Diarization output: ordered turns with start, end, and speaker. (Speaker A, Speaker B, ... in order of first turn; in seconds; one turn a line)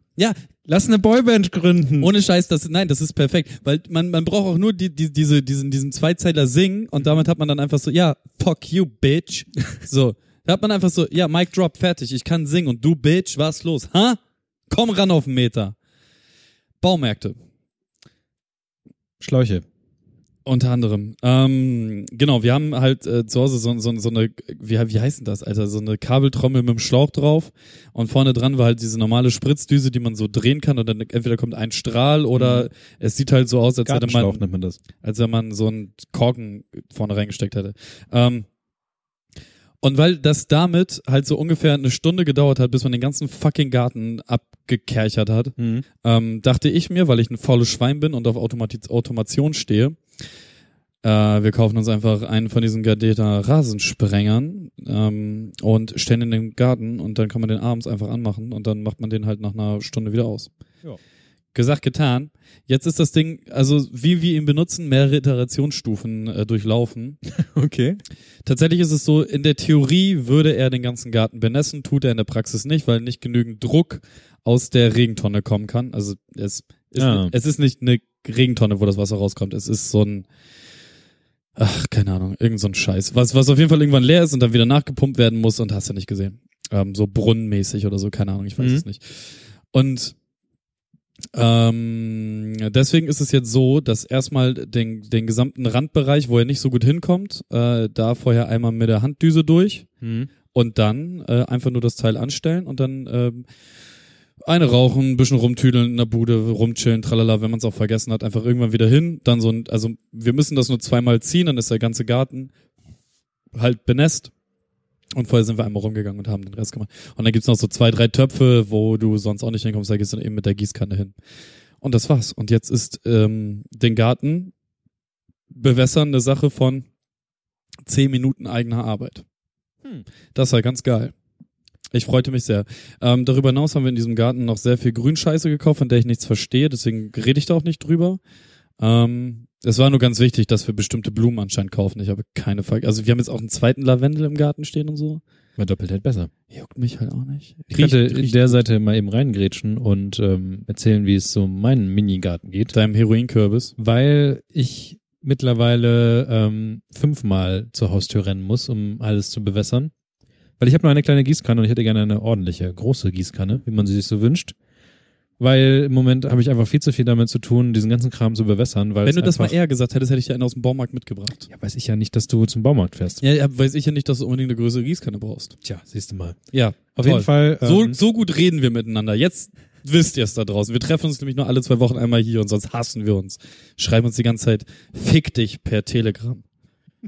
Speaker A: 0.7-2.1
Speaker B: 2.0-14.2
Speaker B: 14.7-15.7
Speaker B: 16.8-17.4
Speaker A: 19.2-19.6
Speaker B: 20.4-34.4
Speaker A: 32.3-32.7
Speaker A: 33.9-34.8
Speaker B: 35.0-38.5
Speaker B: 39.8-50.0
Speaker A: 45.6-45.8
Speaker B: 51.0-60.5
Speaker B: 61.5-67.2
Speaker A: 67.3-68.0
Speaker B: 68.4-80.3
Speaker A: 77.0-77.3
Speaker B: 81.6-90.1
Speaker A: 88.6-88.8
Speaker B: 91.3-99.9
Speaker A: 100.0-100.3
Speaker B: 100.5-103.5
Speaker B: 104.4-112.5
Speaker B: 113.5-114.3
Speaker B: 115.2-121.1
Speaker B: 121.8-124.5
Speaker B: 125.5-126.9
Speaker B: 127.9-129.2
Speaker B: 130.3-131.1
Speaker B: 131.9-138.2
Speaker B: 138.8-145.2
Speaker A: 145.6-146.3
Speaker B: 146.5-148.6
Speaker A: 147.7-152.7
Speaker B: 152.7-153.7
Speaker A: 153.8-159.9
Speaker A: 160.6-164.5
Speaker A: 165.4-169.5
Speaker B: 169.0-171.5
Speaker A: 171.5-173.2
Speaker B: 173.2-175.5
Speaker A: 175.6-176.4
Speaker B: 176.5-186.4
Speaker A: 176.9-178.0